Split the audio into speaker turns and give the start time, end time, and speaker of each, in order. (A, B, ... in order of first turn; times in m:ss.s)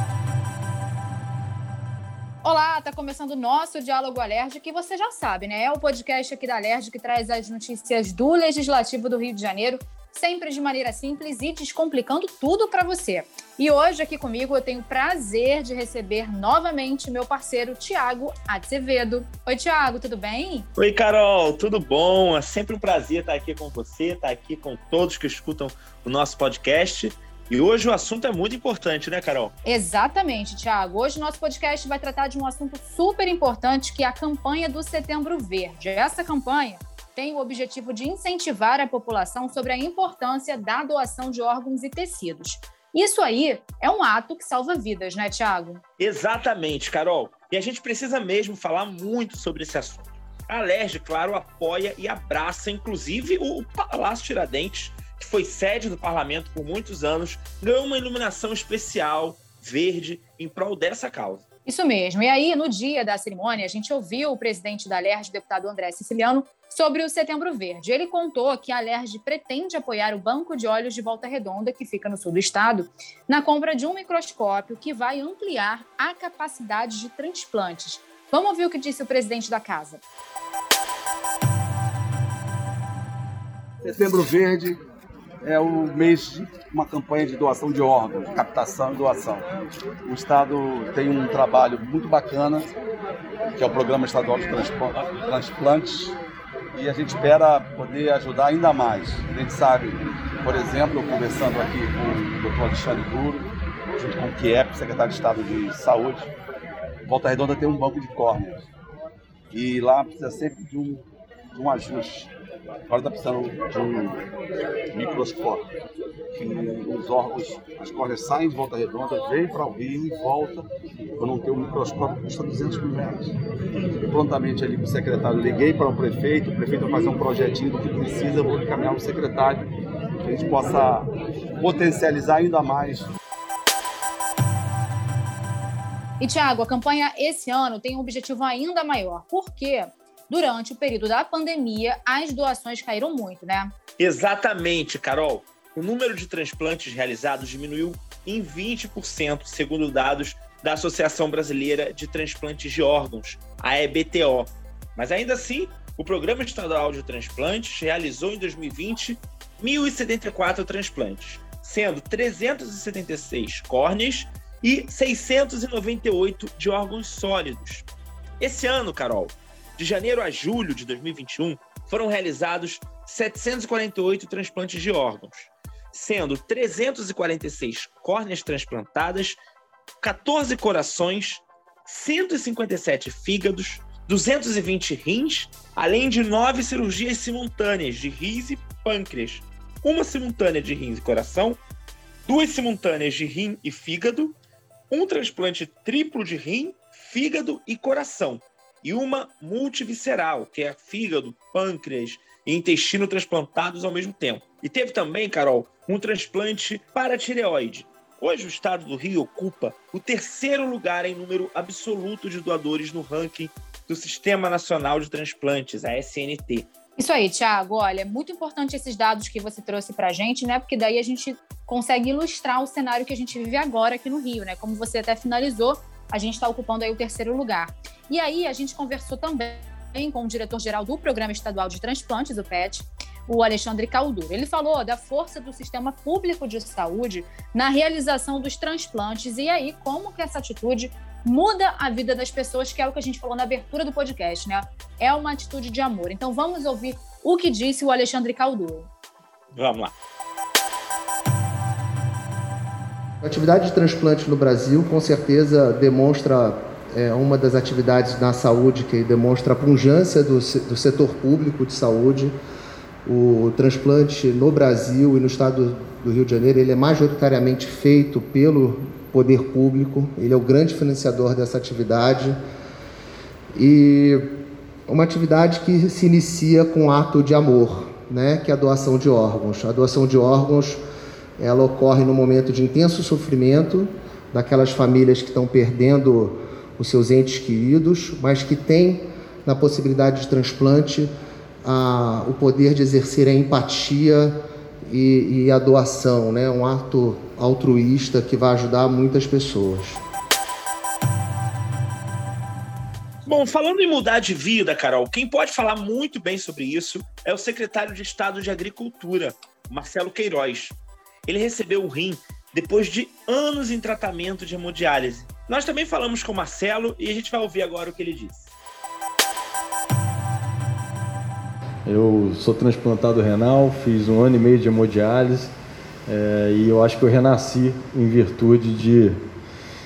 0:02.4-0:20.7 A
0:20.8-0:29.5 B
0:29.6-0:45.8 A
0:46.0-1:01.4 B
1:01.6-1:20.0 A
1:23.8-1:24.8 C
1:25.4-1:29.5 C
1:30.0-1:32.7 C
1:33.6-1:36.2 C
1:36.7-1:46.3 C
1:47.0-1:48.7 C
1:49.5-1:52.3 C
1:52.9-1:54.2 C
1:54.9-1:55.7 C
1:56.3-2:09.7 C
2:10.2-2:13.1 C
2:16.2-2:23.7 A
2:24.0-2:47.9 B
2:48.4-2:59.4 B
3:00.0-3:11.6 B
3:12.3-3:14.4 B
3:14.9-3:36.7 B
3:37.0-4:08.9 A
4:09.5-4:09.9 B
4:13.2-4:22.3 D
4:23.0-4:32.4 D
4:33.5-4:34.3 D
4:34.9-4:40.8 D
4:41.4-4:51.1 D
4:51.6-5:00.0 D
5:03.2-5:18.5 B
5:21.8-5:25.5 E
5:26.1-5:29.2 E